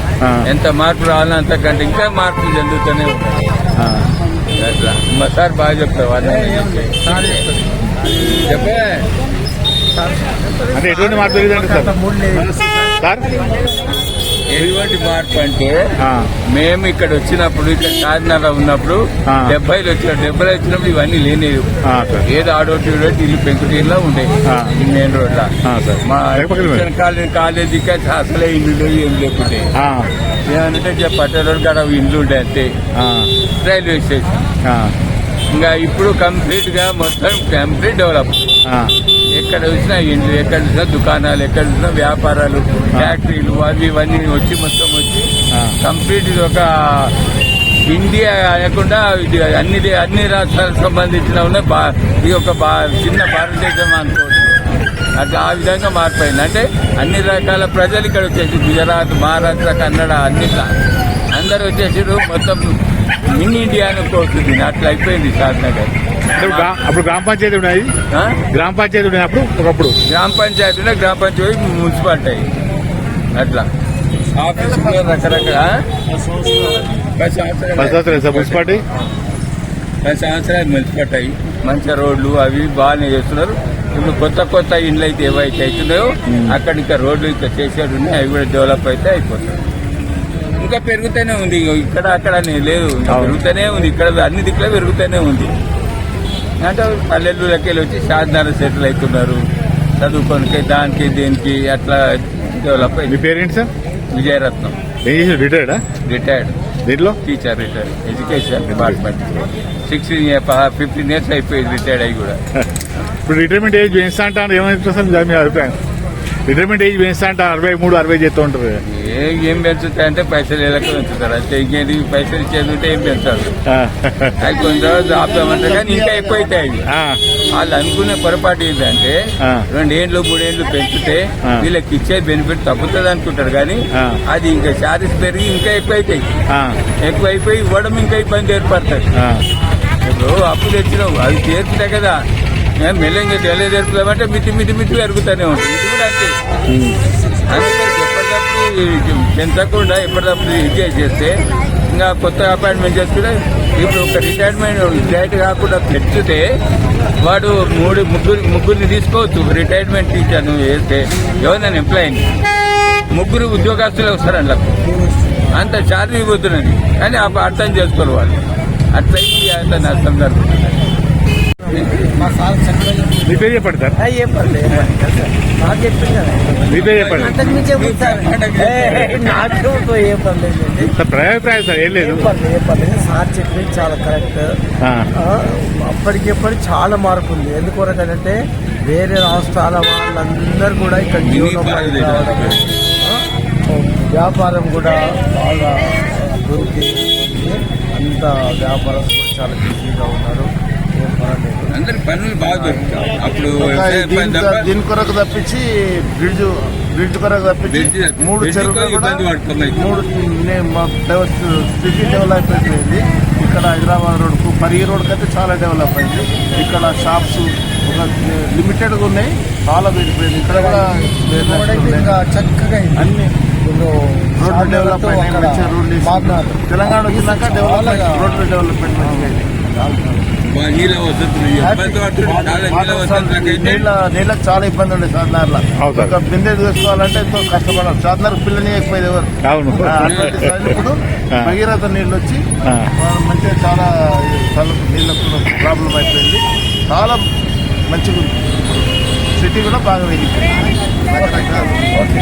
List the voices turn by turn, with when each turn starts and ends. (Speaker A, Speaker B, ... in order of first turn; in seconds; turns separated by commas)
Speaker A: 0.5-3.5, Speaker B: 3.8-4.1, Speaker A: 4.5-7.5, Speaker C: 6.2-8.4, Speaker A: 8.2-9.1, Speaker C: 9.9-12.6, Speaker B: 10.7-11.9, Speaker B: 13.0-13.4, Speaker A: 14.5-15.8, Speaker B: 16.0-16.3, Speaker A: 16.5-21.7, Speaker B: 19.3-19.5, Speaker B: 21.9-22.2, Speaker A: 22.2-25.5, Speaker B: 24.4-24.7, Speaker B: 25.6-26.9, Speaker A: 26.1-29.7, Speaker B: 29.8-30.1, Speaker A: 30.5-32.7, Speaker B: 33.0-33.3, Speaker A: 33.5-34.3, Speaker B: 34.6-35.0, Speaker A: 35.5-38.4, Speaker B: 38.7-38.9, Speaker A: 39.3-45.3, Speaker A: 45.8-47.1, Speaker A: 47.9-54.6, Speaker A: 55.2-60.7, Speaker A: 61.3-66.7, Speaker B: 66.4-67.9, Speaker A: 68.1-68.4, Speaker B: 68.5-70.0, Speaker A: 70.1-72.5, Speaker A: 73.3-73.7, Speaker A: 74.3-75.8, Speaker A: 77.2-78.7, Speaker B: 77.8-78.8, Speaker A: 80.0-89.6, Speaker B: 86.3-86.6, Speaker A: 90.6-95.5, Speaker B: 93.1-93.4, Speaker A: 96.6-99.4, Speaker A: 100.0-103.2, Speaker B: 103.1-103.7, Speaker A: 104.1-104.8, Speaker B: 105.0-105.8, Speaker A: 106.0-106.5, Speaker B: 106.9-107.2, Speaker A: 107.2-112.4, Speaker B: 108.7-109.0, Speaker B: 113.3-115.8, Speaker B: 116.5-118.8, Speaker A: 118.8-123.5, Speaker B: 123.7-124.4, Speaker A: 124.4-126.9, Speaker D: 125.0-126.6, Speaker B: 126.9-127.2, Speaker A: 127.5-129.2, Speaker A: 129.7-136.3, Speaker B: 133.9-134.2, Speaker B: 136.5-136.8, Speaker A: 137.0-139.1, Speaker B: 139.2-139.4, Speaker A: 140.0-142.2, Speaker A: 142.8-146.3, Speaker B: 146.7-147.0, Speaker A: 147.4-156.5, Speaker A: 157.1-162.3, Speaker A: 163.1-164.8, Speaker C: 164.8-165.5, Speaker A: 165.5-170.8, Speaker C: 171.6-173.4, Speaker A: 171.7-172.2, Speaker B: 173.2-174.0, Speaker C: 174.0-176.6, Speaker A: 176.6-179.7, Speaker B: 176.7-177.4, Speaker C: 177.1-180.9, Speaker B: 180.9-182.3, Speaker C: 181.9-184.5, Speaker B: 184.8-185.1, Speaker C: 185.2-201.8, Speaker A: 191.2-192.6, Speaker A: 201.7-204.7, Speaker D: 203.6-209.2, Speaker A: 207.7-210.0, Speaker D: 209.8-222.1, Speaker C: 220.5-230.3, Speaker D: 224.4-229.6, Speaker A: 230.5-233.9, Speaker D: 231.6-242.4, Speaker B: 235.8-236.1, Speaker B: 239.4-240.8, Speaker A: 240.1-240.4, Speaker D: 243.0-247.2, Speaker D: 247.9-248.8, Speaker D: 249.3-250.5, Speaker D: 251.1-251.9, Speaker C: 251.2-252.0